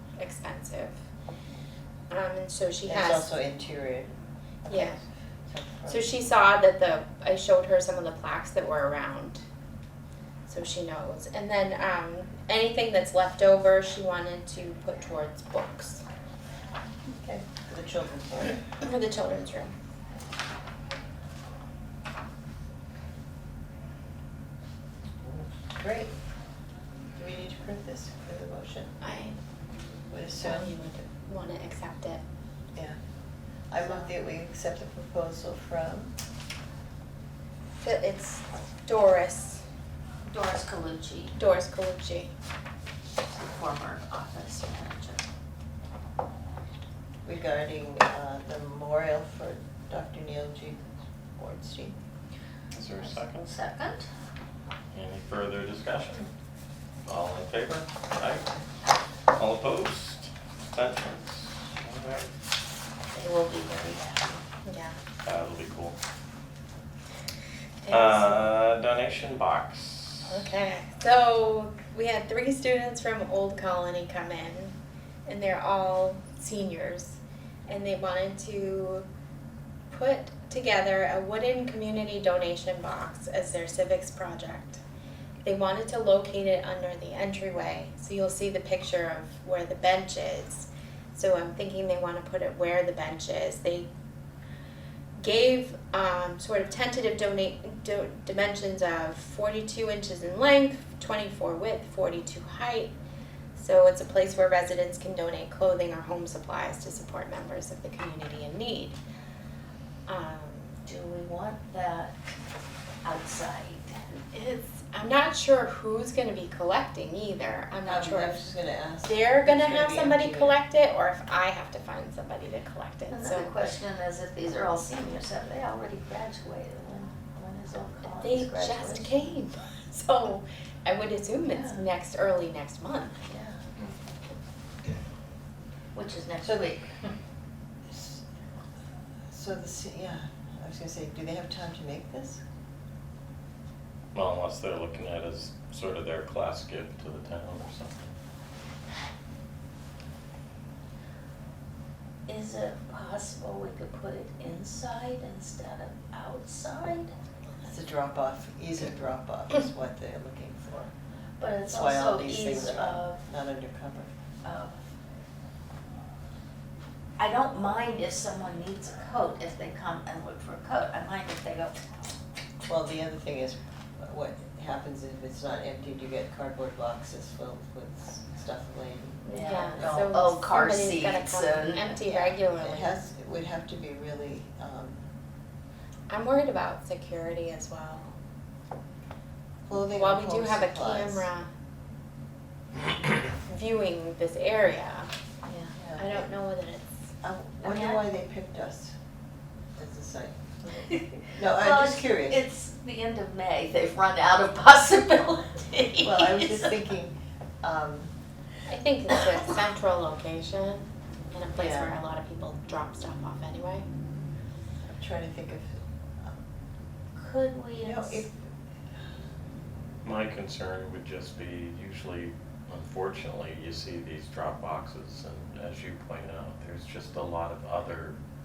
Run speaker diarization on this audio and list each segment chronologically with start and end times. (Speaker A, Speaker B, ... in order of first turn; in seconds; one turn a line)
Speaker A: 0.2-1.0
Speaker A: 2.1-3.3
Speaker B: 2.9-4.1
Speaker B: 4.6-6.1
Speaker A: 4.7-5.0
Speaker A: 5.9-9.4
Speaker A: 10.5-16.0
Speaker B: 17.1-18.6
Speaker A: 18.6-19.7
Speaker B: 25.2-26.1
Speaker B: 27.2-28.9
Speaker A: 29.0-29.4
Speaker B: 30.1-30.8
Speaker A: 30.4-32.2
Speaker B: 33.7-36.1
Speaker A: 33.8-34.1
Speaker A: 37.8-39.6
Speaker C: 40.3-41.5
Speaker A: 41.4-42.3
Speaker C: 43.2-45.2
Speaker B: 47.2-52.0
Speaker D: 52.7-53.5
Speaker C: 52.8-54.1
Speaker D: 54.9-56.3
Speaker D: 57.0-58.6
Speaker D: 59.3-62.3
Speaker C: 63.1-64.4
Speaker A: 64.7-65.0
Speaker D: 65.2-66.0
Speaker A: 67.8-68.5
Speaker D: 67.9-70.3
Speaker A: 70.3-79.1
Speaker A: 79.9-84.8
Speaker A: 85.4-93.9
Speaker A: 95.2-102.9
Speaker A: 103.5-109.0
Speaker A: 110.1-110.7
Speaker C: 110.8-112.2
Speaker C: 113.0-114.2
Speaker A: 114.3-118.4
Speaker B: 117.8-120.6
Speaker A: 119.0-123.6
Speaker C: 123.1-129.3
Speaker A: 128.1-133.2
Speaker C: 131.5-131.8
Speaker C: 133.3-133.6
Speaker C: 135.9-137.1
Speaker B: 136.4-136.8
Speaker B: 137.9-138.2
Speaker B: 139.3-142.4
Speaker D: 144.1-148.1
Speaker C: 152.3-157.1
Speaker B: 157.7-160.9
Speaker C: 161.4-163.2
Speaker B: 161.6-164.1
Speaker C: 164.4-164.8
Speaker C: 167.2-171.8
Speaker B: 172.7-180.1
Speaker A: 179.3-182.9
Speaker C: 179.3-182.0
Speaker B: 182.0-185.0
Speaker A: 186.1-188.2
Speaker B: 189.7-191.3
Speaker A: 190.0-191.5
Speaker A: 193.5-195.1
Speaker C: 195.5-195.7
Speaker B: 195.8-196.3
Speaker A: 196.0-197.0
Speaker B: 197.2-198.9
Speaker C: 197.6-198.0
Speaker B: 199.8-200.5
Speaker C: 200.6-206.9
Speaker B: 201.3-202.4
Speaker B: 206.0-208.1
Speaker A: 208.7-213.9
Speaker B: 211.6-212.0
Speaker B: 214.8-216.3
Speaker C: 217.2-218.2
Speaker B: 217.8-218.4
Speaker D: 220.0-228.2